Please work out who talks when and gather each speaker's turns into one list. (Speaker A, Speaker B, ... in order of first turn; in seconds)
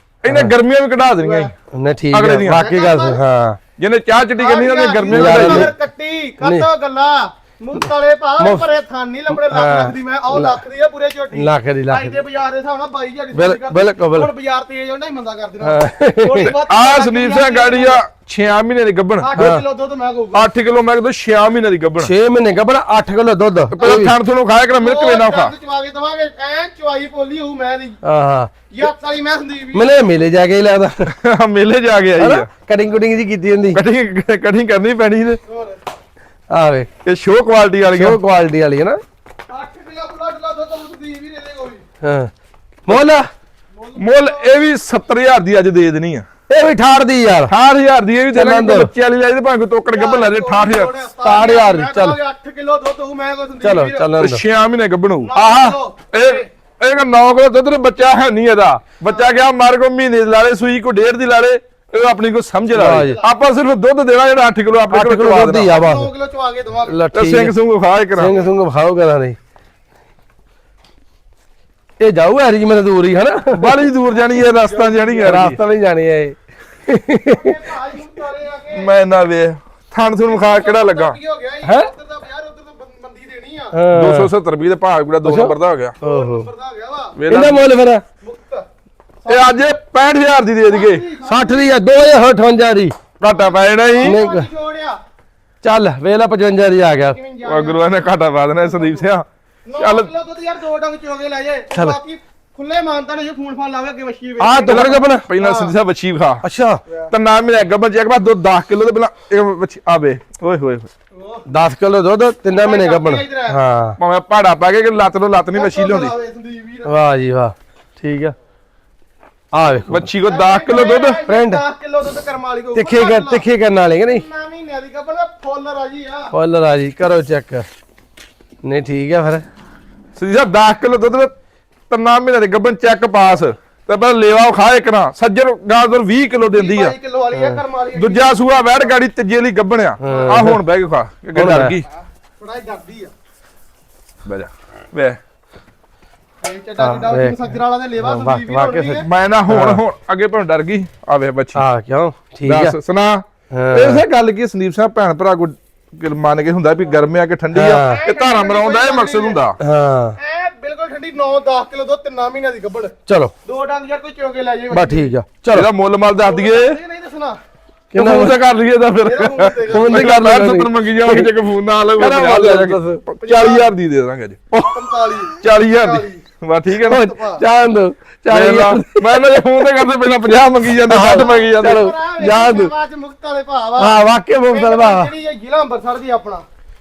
Speaker A: 0.2-1.5, 2.1-2.7, 3.8-5.7, 16.4-19.3, 20.3-22.1, 23.7-25.5, 31.1-32.5, 33.7-35.4, 37.0-38.2, 44.0-46.3, 47.5-50.9, 54.2-65.8, 67.1-68.3, 73.5-75.6, 78.7-81.2, 83.9-86.0, 87.2-87.6, 89.3-91.0, 93.2-94.2, 97.5-99.3, 99.8-100.1, 104.4-106.4, 107.1-110.9, 114.0-116.1, 119.9-121.2, 130.2-131.3, 131.9-136.9, 137.9-141.9, 144.3-145.2, 149.0-151.6, 152.4-159.6, 165.5-166.8, 167.9-174.6, 175.4-177.1, 178.3-181.9
Speaker B: 0.3-0.5, 1.7-3.6, 5.1-5.7, 6.4-6.7, 8.4-8.7, 9.3-10.6, 11.3-12.2, 13.3-14.3, 15.6-16.5, 19.4-19.6, 22.0-24.1, 28.0-28.5, 29.7-31.1, 32.2-33.8, 36.5-36.9, 37.9-39.0, 42.0-42.3, 42.9-43.3, 46.5-47.5, 48.3-48.9, 51.2-52.2, 53.6-54.4, 62.7-63.2, 64.9-66.1, 66.9-67.5, 68.2-69.4, 72.0-73.7, 75.2-77.6, 81.6-81.9, 83.7-84.3, 85.2-86.5, 87.3-88.0, 91.2-93.0, 94.0-94.5, 95.6-97.2, 104.7-105.3, 106.4-106.8, 111.5-114.0, 116.8-118.4, 119.5-120.1, 121.3-121.6, 122.8-124.2, 126.3-127.7, 128.6-129.4, 137.3-137.6, 140.0-140.6, 141.3-141.8, 146.8-149.8, 151.6-152.8, 153.5-154.0, 157.5-158.0, 159.6-160.2, 163.1-163.3, 164.7-165.7, 167.9-168.4, 169.7-171.3, 172.0-173.0, 176.8-179.4, 180.8-182.7, 183.8-185.1
Speaker C: 1.2-1.5, 2.5-3.2, 4.4-18.0, 19.2-20.5, 23.8-24.0, 24.8-28.0, 28.7-29.9, 35.5-35.8, 39.5-41.8, 43.8-44.5, 49.9-54.2, 55.2-56.5, 59.0-59.3, 62.9-63.3, 65.7-67.0, 74.4-75.5, 77.3-78.9, 80.2-83.8, 86.0-87.2, 88.2-88.7, 89.2-89.7, 90.7-91.7, 93.3-95.0, 97.1-97.9, 98.6-99.1, 99.7-105.7, 111.1-111.5, 112.5-113.6, 115.5-116.9, 120.2-123.5, 124.0-126.3, 136.5-138.9, 140.1-140.5, 142.4-143.1, 146.4-149.1, 157.8-159.4, 160.2-162.9, 163.4-165.1, 166.2-167.4, 169.1-170.2, 173.2-173.7, 174.7-176.2, 176.9-177.4, 181.0-184.0, 184.5-186.5